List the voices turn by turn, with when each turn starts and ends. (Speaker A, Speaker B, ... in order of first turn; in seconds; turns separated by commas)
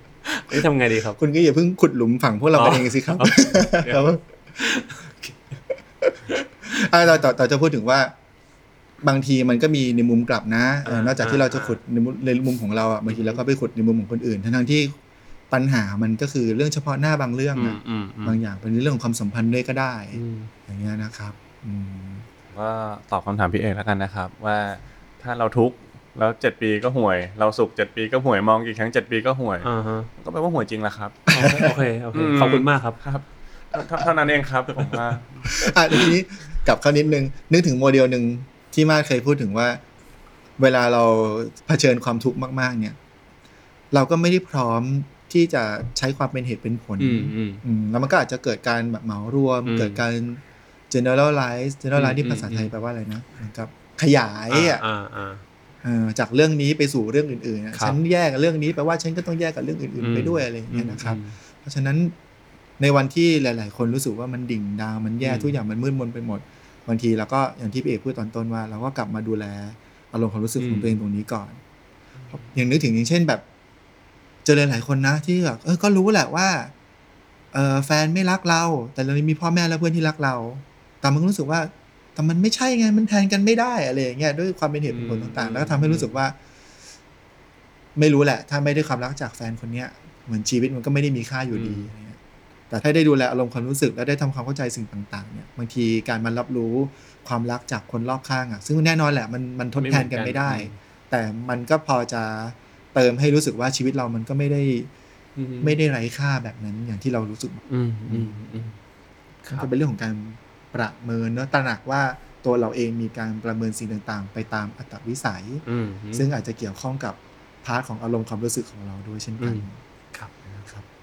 Speaker A: 0.2-1.2, Speaker B: 1.2-4.6, Speaker A: 2.5-4.0, Speaker A: 4.6-5.3, Speaker B: 6.0-8.1, Speaker B: 9.0-15.0, Speaker A: 10.8-11.8, Speaker A: 13.1-13.4, Speaker B: 15.5-22.3, Speaker C: 17.5-18.4, Speaker A: 20.1-20.5, Speaker C: 22.5-36.1, Speaker A: 29.6-30.1, Speaker B: 31.3-31.7, Speaker A: 31.3-33.0, Speaker B: 35.5-39.8, Speaker B: 40.6-43.0, Speaker B: 43.9-54.8, Speaker A: 47.0-47.6, Speaker A: 49.6-50.0, Speaker A: 51.9-52.7, Speaker A: 54.5-55.4, Speaker B: 55.8-62.1, Speaker A: 60.0-61.4, Speaker B: 62.8-71.6, Speaker A: 65.2-65.5, Speaker A: 70.6-70.9, Speaker B: 72.3-73.4, Speaker B: 74.4-76.7, Speaker B: 77.5-86.4, Speaker A: 84.9-86.2, Speaker B: 88.0-92.2, Speaker A: 91.5-91.9, Speaker B: 92.7-104.9, Speaker A: 99.8-100.7, Speaker A: 105.4-105.8, Speaker B: 105.6-108.4, Speaker A: 107.7-108.7, Speaker A: 109.4-109.7, Speaker B: 109.5-119.8, Speaker A: 115.6-116.3, Speaker A: 119.4-120.3, Speaker B: 120.5-120.8